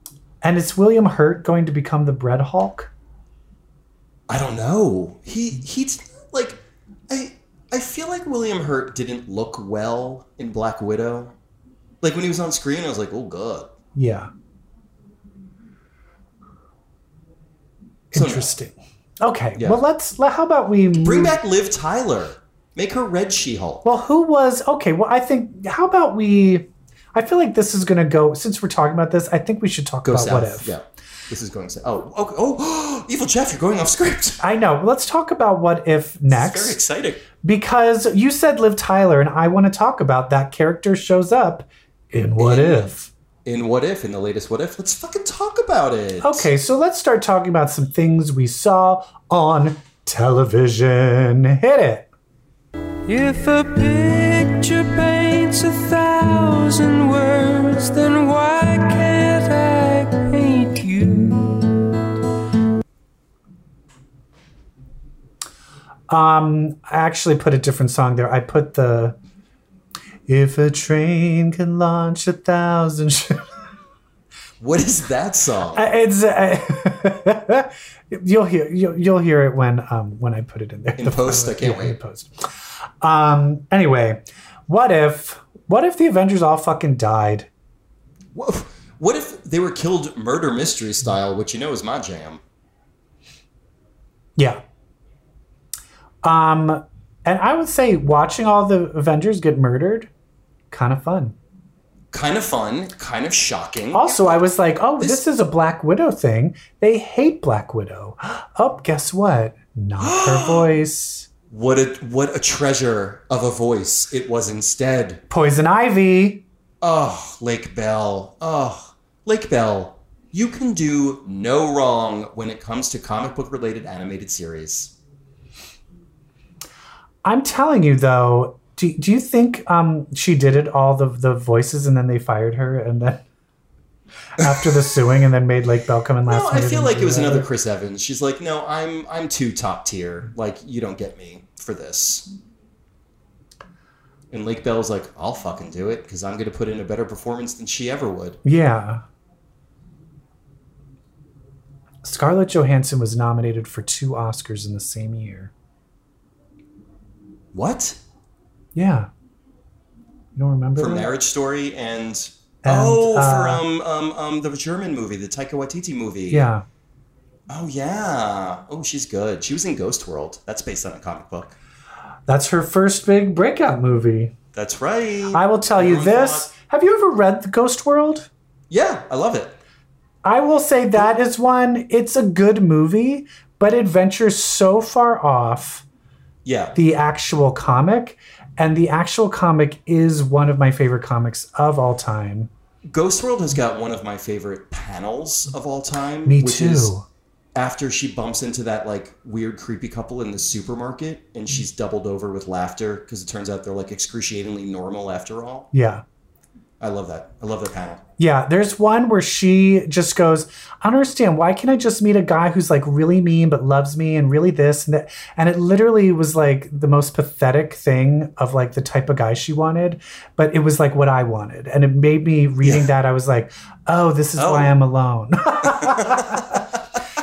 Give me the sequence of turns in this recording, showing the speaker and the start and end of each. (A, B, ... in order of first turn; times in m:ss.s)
0:00.4-0:02.9 A
0:04.3-0:11.4 B
0:12.0-0:13.7 B
0:14.0-0:14.3 A
0:18.1-0:21.4 A
0:18.1-0:18.5 B
0:19.6-0:19.8 B
0:21.0-0:23.8 B
0:23.8-0:30.8 A
0:30.0-0:34.4 B
0:34.4-0:36.8 A
0:36.3-0:37.3 B
0:37.4-0:43.1 A
0:42.4-0:42.9 B
0:43.4-0:46.5 B
0:46.2-0:52.1 A
0:53.1-1:01.8 C
1:06.1-1:09.2 A
1:10.3-1:13.4 A
1:14.6-1:15.9 B
1:15.7-1:22.3 A
1:21.0-1:22.0 B
1:23.0-1:27.5 A
1:28.3-1:32.4 B
1:36.2-1:40.1 A
1:40.7-1:41.4 A
1:42.1-1:44.5 B
1:43.9-1:51.3 A
1:50.0-1:50.7 B
1:51.5-1:55.2 B
1:55.3-1:56.4 A
1:56.8-2:04.9 B
2:07.2-2:13.2 A
2:14.4-2:17.5 A
2:14.4-2:14.9 B
2:16.3-2:22.3 B
2:24.3-2:28.4 B
2:28.4-2:29.0 A
2:32.0-2:35.5 A
2:37.5-2:38.0 B
2:38.8-2:39.1 A
2:40.4-2:41.1 A
2:40.8-2:46.5 B
2:42.6-2:43.6 A
2:46.3-2:46.6 A
2:47.5-2:51.6 B
2:52.3-2:54.3 A
2:54.5-2:56.5 B
2:55.3-2:58.3 A
2:58.7-2:59.6 B
3:00.2-3:05.8 A
3:06.4-3:06.8 B
3:06.8-3:12.5 A
3:12.9-3:16.9 B
3:16.2-3:17.0 A
3:17.6-3:25.7 B
3:25.7-3:26.0 A
3:26.8-3:28.0 B
3:28.2-3:46.6 A
3:42.6-3:42.9 B
3:44.4-3:44.8 B
3:45.6-3:46.6 B